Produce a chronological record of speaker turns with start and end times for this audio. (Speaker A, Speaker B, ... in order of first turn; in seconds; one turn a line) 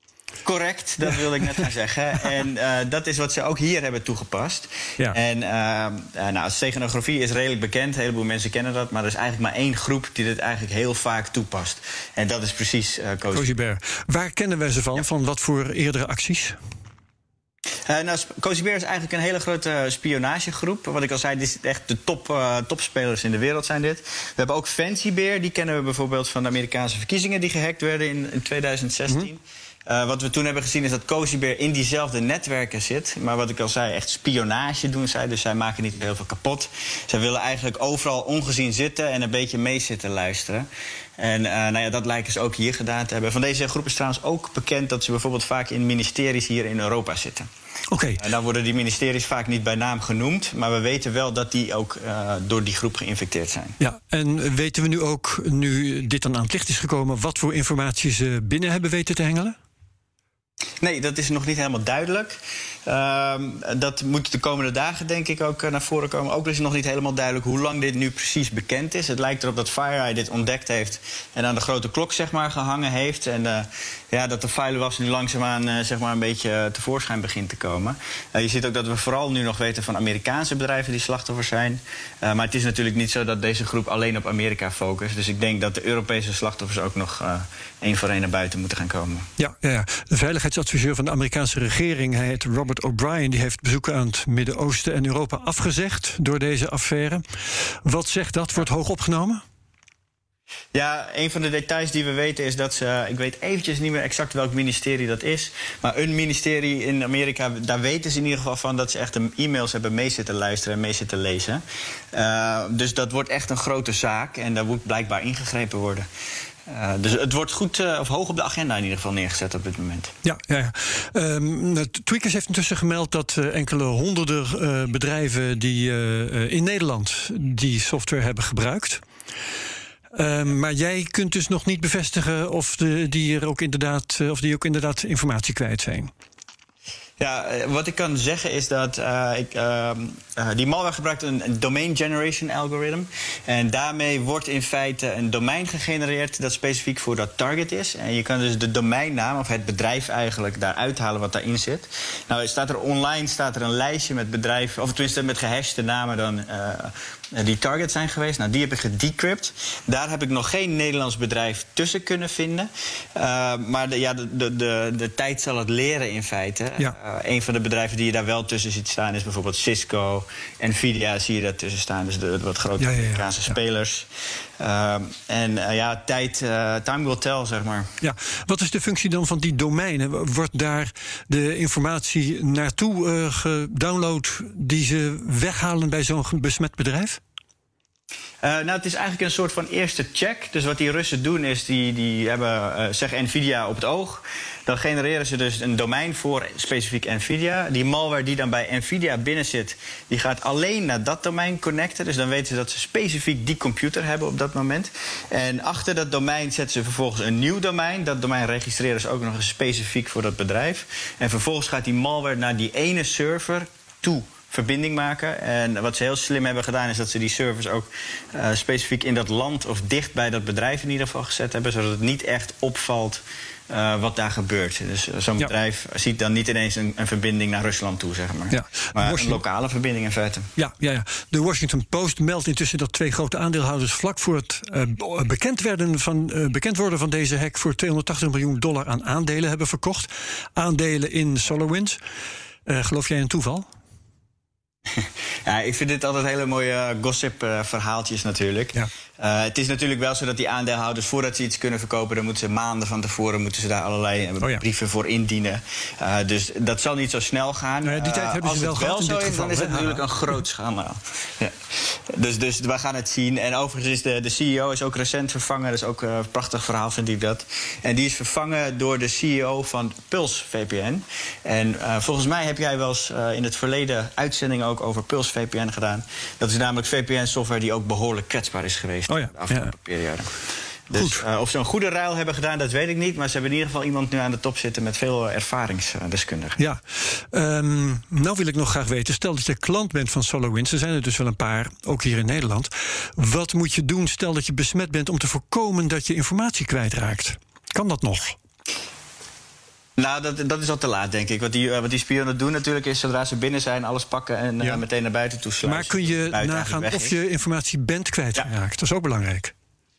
Speaker A: 0.5-13.5
Speaker B: 13.3-16.6
Speaker A: 17.9-40.7
Speaker A: 41.2-47.5
Speaker B: 47.9-48.2
Speaker A: 48.2-53.8
Speaker B: 53.8-59.5
Speaker A: 60.8-89.3
Speaker B: 89.4-97.2
Speaker B: 97.8-99.4
Speaker A: 100.7-111.6
Speaker A: 112.1-116.1
Speaker A: 116.7-120.1
Speaker B: 120.2-129.0
Speaker B: 130.2-136.1
Speaker A: 137.2-174.1
Speaker B: 172.8-173.6
Speaker A: 174.6-177.9
Speaker B: 178.0-187.2
Speaker A: 188.4-230.5
Speaker B: 228.5-229.4
Speaker B: 230.6-242.0
Speaker B: 242.7-243.7
Speaker A: 244.9-280.4
Speaker B: 257.8-260.3
Speaker B: 279.1-279.7
Speaker A: 280.9-286.6
Speaker B: 280.9-281.2
Speaker B: 286.6-298.4
Speaker A: 300.0-307.1
Speaker B: 305.6-309.5